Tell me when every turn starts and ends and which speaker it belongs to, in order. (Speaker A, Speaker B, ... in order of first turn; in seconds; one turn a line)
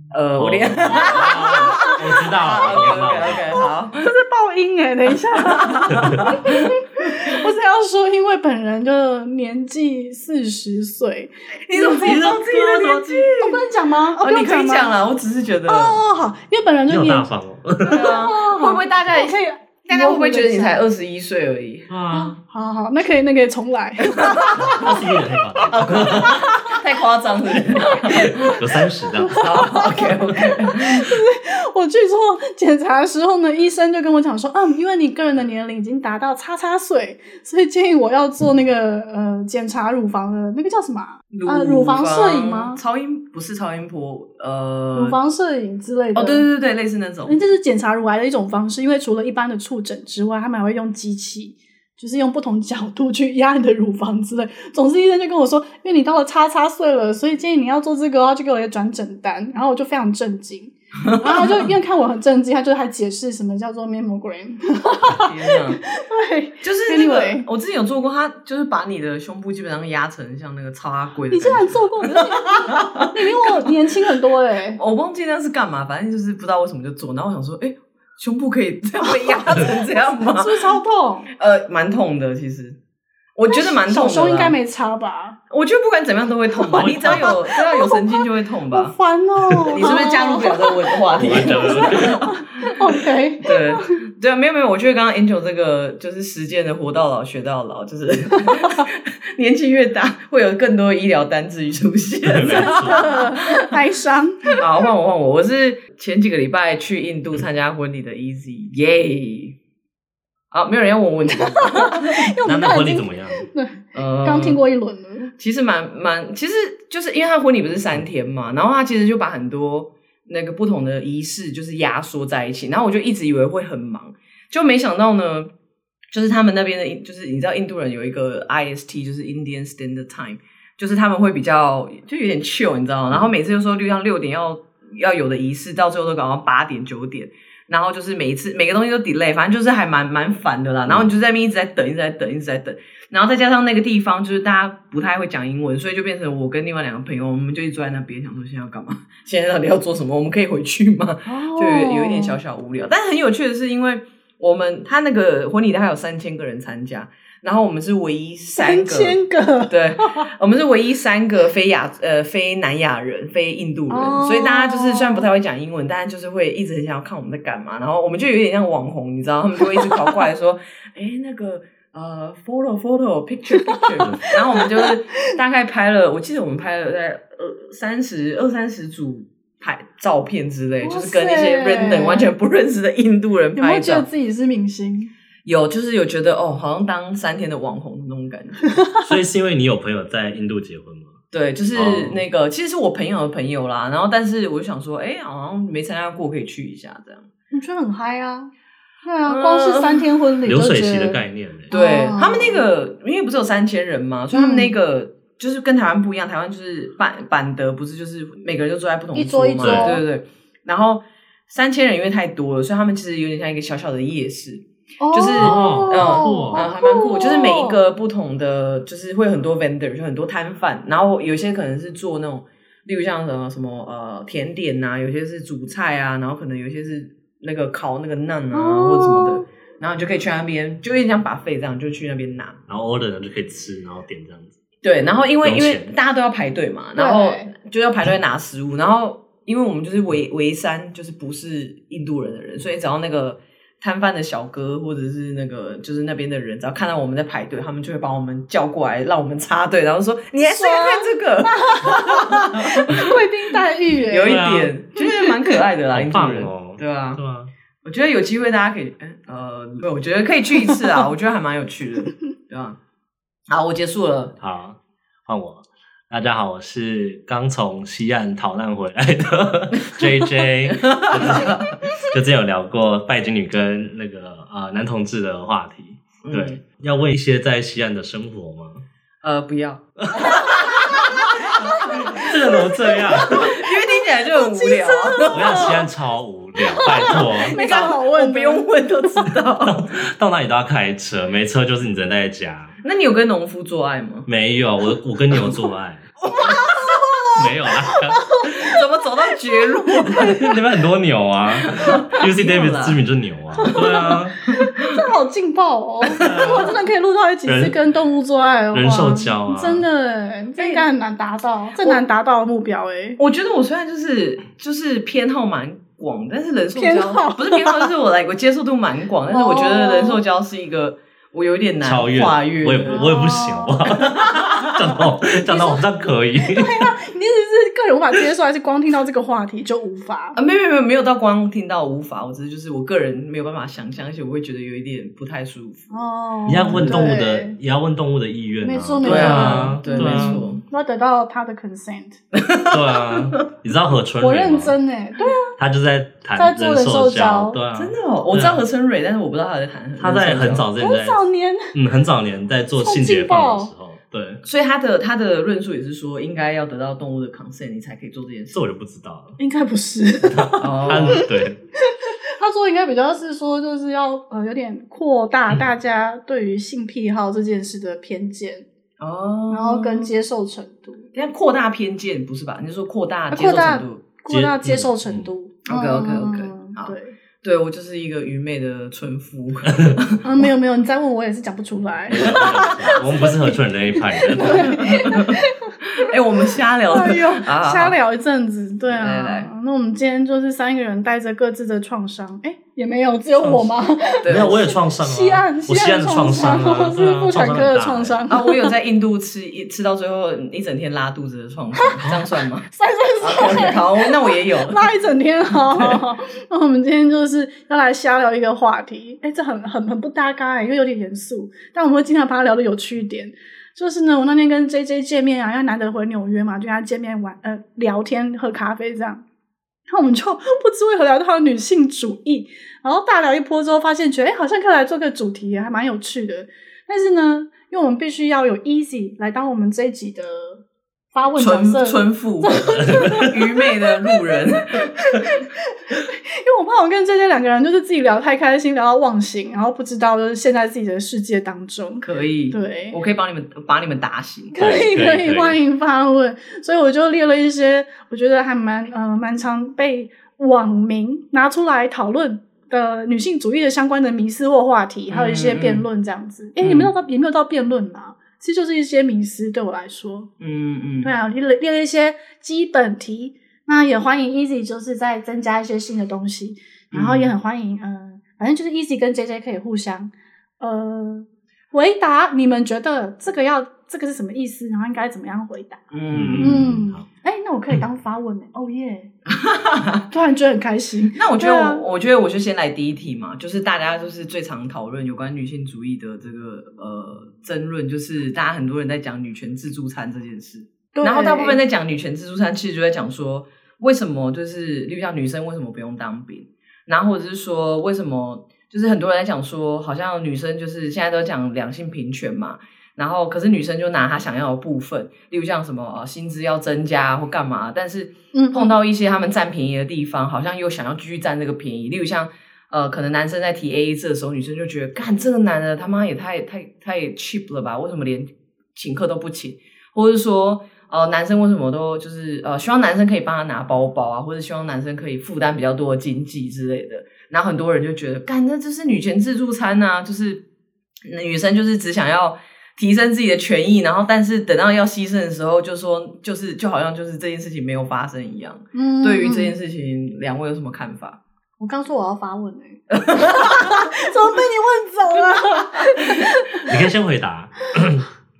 Speaker A: 0.1-4.0
Speaker B: 0.3-3.6
Speaker C: 1.1-12.3
Speaker A: 5.3-7.2
Speaker A: 11.7-13.6
Speaker B: 12.0-13.2
Speaker C: 13.2-14.9
Speaker A: 14.2-16.0
Speaker C: 15.7-17.3
Speaker B: 16.9-18.2
Speaker A: 17.9-19.3
Speaker C: 17.9-20.8
Speaker A: 19.9-21.9
Speaker B: 21.9-22.4
Speaker C: 22.1-24.9
Speaker A: 24.1-25.0
Speaker B: 24.7-26.4
Speaker A: 25.7-28.6
Speaker C: 26.0-26.8
Speaker C: 27.8-28.6
Speaker B: 28.1-29.5
Speaker C: 29.2-42.8
Speaker A: 29.4-31.2
Speaker A: 41.3-45.2
Speaker C: 44.9-46.5
Speaker A: 46.1-47.4
Speaker C: 47.2-67.5
Speaker A: 61.0-61.6
Speaker A: 65.1-65.8
Speaker A: 66.6-73.8
Speaker C: 71.3-74.8
Speaker A: 74.7-80.7
Speaker C: 79.0-79.6
Speaker C: 80.3-81.3
Speaker A: 81.4-82.8
Speaker A: 83.3-84.5
Speaker C: 83.5-85.4
Speaker A: 85.5-88.9
Speaker C: 86.7-94.0
Speaker B: 86.8-87.4
Speaker A: 89.7-92.8
Speaker B: 91.2-92.4
Speaker A: 93.4-103.6
Speaker B: 102.2-103.1
Speaker C: 102.4-104.6
Speaker A: 104.5-109.6
Speaker A: 110.5-112.2
Speaker C: 111.4-115.3
Speaker B: 112.4-113.5
Speaker A: 113.9-114.6
Speaker A: 115.4-125.5
Speaker A: 126.1-184.1
Speaker C: 151.2-152.4
Speaker C: 158.5-160.3
Speaker C: 163.9-165.2
Speaker C: 173.6-175.3
Speaker C: 180.8-182.3
Speaker C: 183.6-185.1
Speaker A: 185.4-188.7
Speaker C: 188.7-189.0
Speaker B: 189.0-191.1
Speaker A: 191.3-197.3
Speaker B: 191.7-192.2
Speaker C: 197.5-198.5
Speaker C: 199.0-202.6
Speaker A: 199.2-200.1
Speaker B: 200.4-201.7
Speaker A: 201.7-232.6
Speaker C: 204.3-204.7
Speaker C: 209.1-210.0
Speaker B: 209.6-210.0
Speaker C: 215.0-217.8
Speaker B: 215.3-216.6
Speaker C: 228.5-229.4
Speaker B: 232.7-234.6
Speaker A: 234.8-253.1
Speaker B: 235.4-235.9
Speaker C: 236.9-237.5
Speaker C: 250.5-255.2
Speaker A: 254.1-257.2
Speaker B: 254.2-254.7
Speaker B: 255.9-257.5
Speaker A: 257.8-262.8
Speaker A: 263.5-264.4
Speaker B: 264.4-278.8
Speaker A: 269.8-270.1
Speaker A: 270.6-271.8
Speaker C: 271.3-272.1
Speaker A: 276.2-276.6
Speaker A: 279.2-281.5
Speaker C: 280.3-285.8
Speaker B: 281.8-283.6
Speaker A: 283.2-285.9
Speaker B: 285.3-287.6
Speaker C: 286.6-288.6
Speaker A: 286.9-289.8
Speaker B: 289.6-292.7
Speaker A: 292.8-294.3
Speaker B: 294.3-296.1
Speaker C: 296.3-298.8
Speaker B: 297.3-298.2
Speaker A: 298.5-300.4
Speaker C: 299.3-300.4
Speaker B: 300.1-304.4
Speaker A: 301.5-303.0
Speaker C: 303.6-313.2
Speaker A: 304.6-305.0
Speaker A: 306.2-306.6
Speaker B: 306.2-306.7
Speaker B: 307.4-307.8
Speaker B: 308.7-309.8
Speaker A: 310.6-310.8
Speaker A: 313.2-323.0
Speaker C: 316.7-317.9
Speaker C: 319.3-320.2
Speaker B: 321.8-326.9
Speaker C: 322.8-323.9
Speaker C: 325.2-325.8
Speaker C: 326.4-330.4
Speaker A: 330.3-335.9
Speaker C: 335.9-337.5
Speaker B: 336.5-340.5
Speaker A: 336.6-337.0
Speaker C: 338.6-342.2
Speaker A: 339.0-340.6
Speaker A: 342.3-343.4
Speaker B: 342.7-344.8
Speaker C: 344.2-345.5
Speaker B: 345.6-348.6
Speaker C: 346.3-347.6
Speaker A: 347.8-350.6
Speaker B: 350.0-354.4
Speaker C: 350.8-351.7
Speaker C: 352.8-353.7
Speaker A: 354.4-358.6
Speaker B: 358.5-359.4
Speaker C: 359.4-361.2
Speaker B: 360.2-361.6
Speaker A: 360.6-361.2
Speaker C: 362.4-368.6
Speaker A: 369.0-370.1
Speaker C: 369.5-371.0
Speaker A: 371.1-374.0
Speaker C: 373.3-377.1
Speaker B: 374.3-375.3
Speaker A: 375.7-380.4
Speaker C: 380.2-398.7
Speaker B: 382.1-384.9
Speaker A: 384.4-387.9
Speaker A: 388.9-389.5
Speaker B: 393.4-398.1
Speaker A: 394.2-394.7
Speaker A: 398.3-402.7
Speaker C: 401.7-402.0
Speaker C: 402.7-419.2
Speaker A: 403.2-404.9
Speaker A: 405.7-406.0
Speaker C: 419.9-443.0
Speaker A: 431.4-435.1
Speaker A: 442.0-444.5
Speaker C: 444.5-460.3
Speaker B: 444.6-445.6
Speaker A: 455.1-455.8
Speaker A: 456.6-456.9
Speaker A: 460.4-461.1
Speaker C: 461.0-475.8
Speaker A: 466.9-467.3
Speaker A: 475.9-476.7
Speaker B: 476.1-477.0
Speaker C: 476.4-479.1
Speaker A: 479.3-480.1
Speaker C: 480.1-481.8
Speaker A: 481.1-530.4
Speaker C: 490.9-491.6
Speaker C: 508.3-508.7
Speaker A: 531.0-541.2
Speaker C: 538.7-539.5
Speaker C: 541.6-546.7
Speaker A: 542.9-543.9
Speaker A: 545.6-546.2
Speaker B: 546.7-548.0